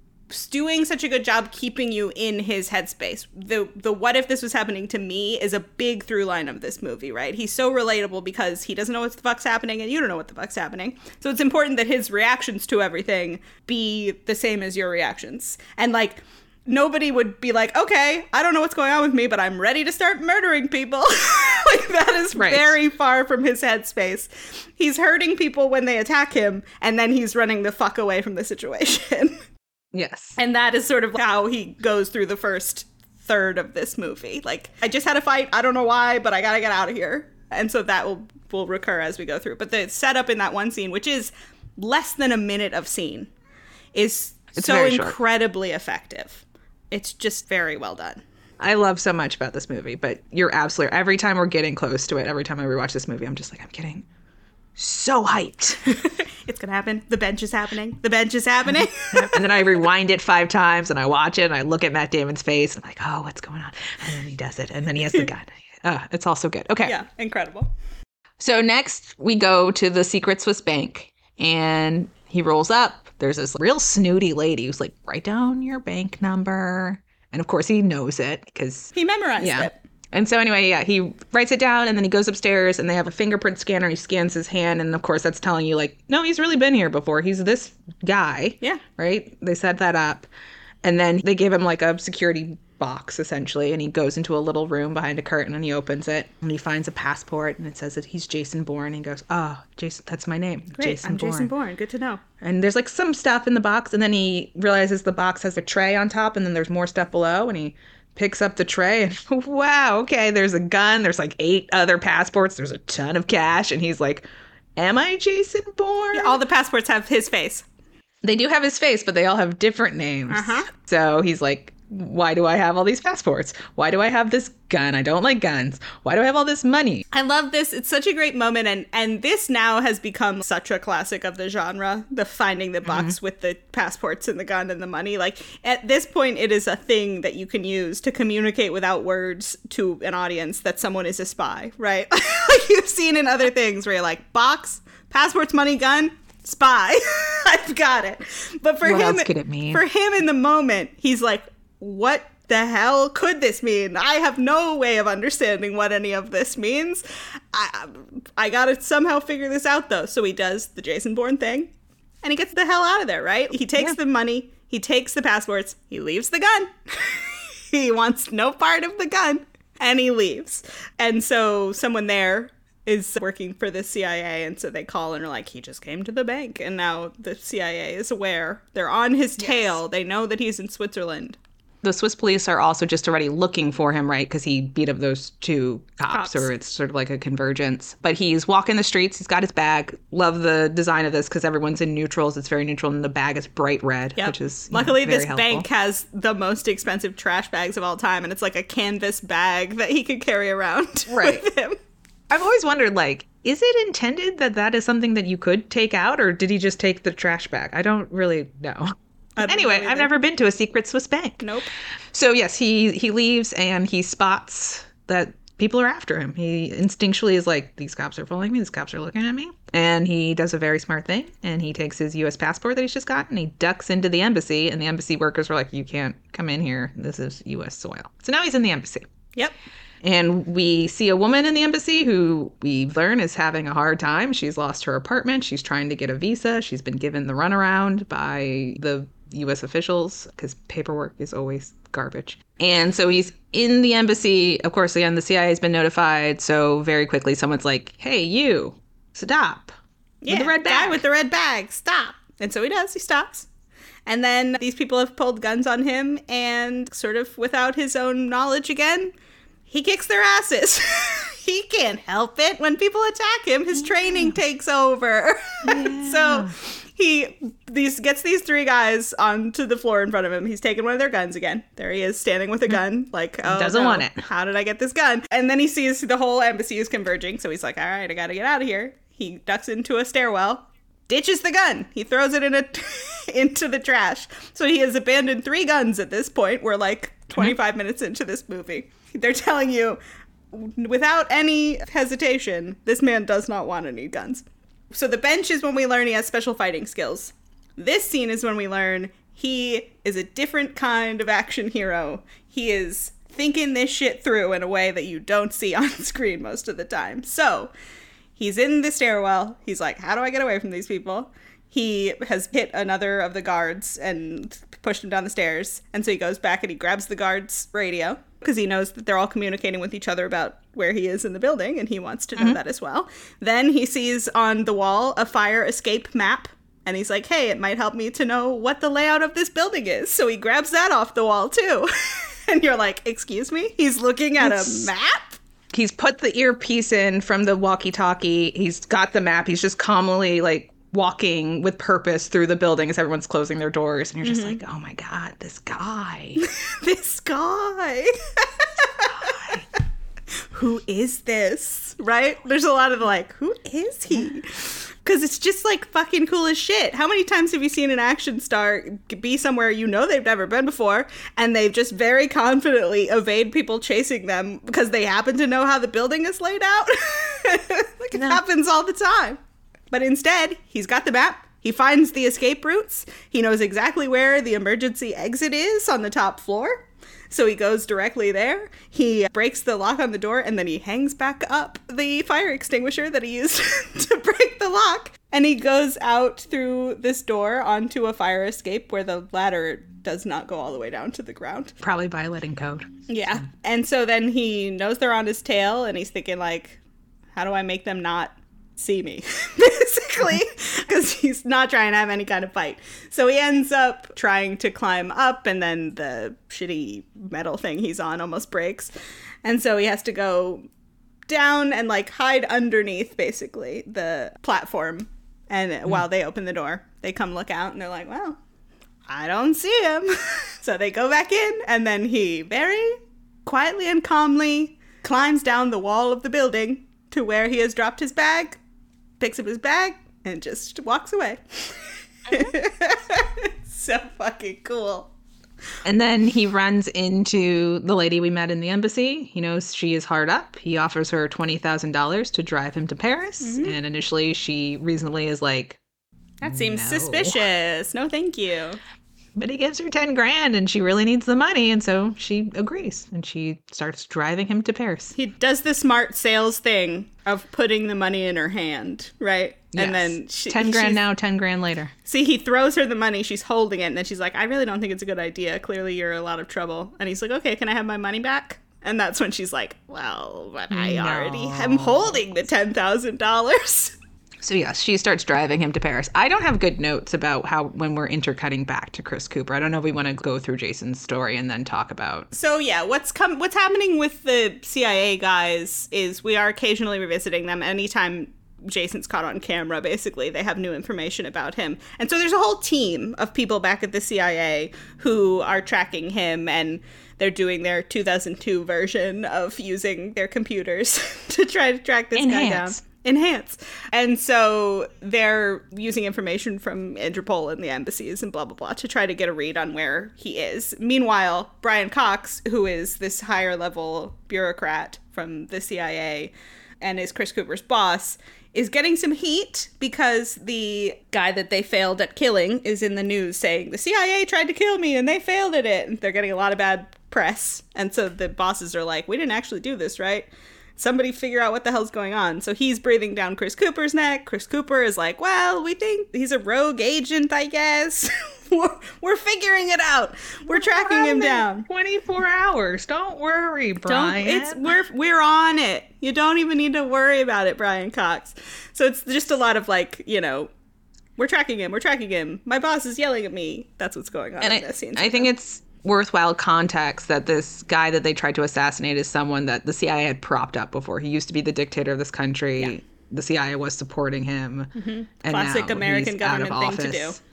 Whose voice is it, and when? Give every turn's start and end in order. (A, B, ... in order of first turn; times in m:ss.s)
0:00.3-0:29.4 A
0:22.3-0:22.7 B
0:29.9-0:30.4 B
0:30.4-0:43.3 A
0:43.9-0:48.2 A
0:44.5-0:45.2 B
0:48.6-0:54.0 B
0:54.8-0:56.0 B
0:56.0-0:59.4 A
0:59.1-1:07.0 B
1:06.8-1:07.7 A
1:08.4-1:30.3 B
1:18.9-1:19.8 A
1:30.8-1:41.5 B
1:40.8-1:42.2 A
1:42.4-1:54.2 B
1:54.8-1:56.4 B
1:56.1-1:57.6 A
1:58.2-2:07.0 B
2:00.3-2:00.7 A
2:07.1-3:01.4 A
2:12.9-2:13.1 B
2:28.8-2:29.8 B
2:59.4-2:59.8 B
3:01.8-3:15.7 B
3:06.1-3:06.5 A
3:14.2-3:21.8 A
3:21.1-3:21.4 B
3:22.3-3:31.5 B
3:29.4-3:30.1 A
3:31.4-3:31.7 A
3:32.1-3:49.1 B
3:50.0-4:09.8 B
4:10.2-4:13.5 A
4:10.3-4:11.0 B
4:14.0-4:19.1 A
4:19.7-4:50.0 A
4:24.0-4:24.3 B
4:25.6-4:26.6 B
4:33.4-4:34.2 B
4:50.5-5:07.7 A
5:08.4-5:35.4 A
5:34.4-5:34.9 B
5:35.7-5:46.4 B
5:44.2-5:44.6 A
5:46.4-5:49.8 A
5:49.2-5:49.6 B
5:50.4-6:09.4 A
6:09.9-6:31.7 A
6:31.8-6:32.9 B
6:33.1-6:36.8 A
6:37.3-6:48.9 A
6:49.4-6:50.6 A
6:51.3-6:58.4 A
6:59.1-7:08.6 A
7:09.2-7:15.1 A
7:15.8-7:25.8 B
7:23.4-7:23.7 A
7:26.4-7:28.8 A
7:26.4-7:27.4 B
7:29.4-7:35.1 B
7:35.1-7:41.0 A
7:39.7-7:41.9 B
7:42.0-7:54.0 A
7:50.7-7:52.2 B
7:54.4-8:02.3 B
8:02.3-9:01.7 A
8:22.1-8:22.8 B
9:00.5-9:04.6 B
9:03.9-9:10.5 A
9:11.2-9:15.3 A
9:14.4-9:24.7 B
9:24.8-9:27.2 A
9:25.2-9:27.2 B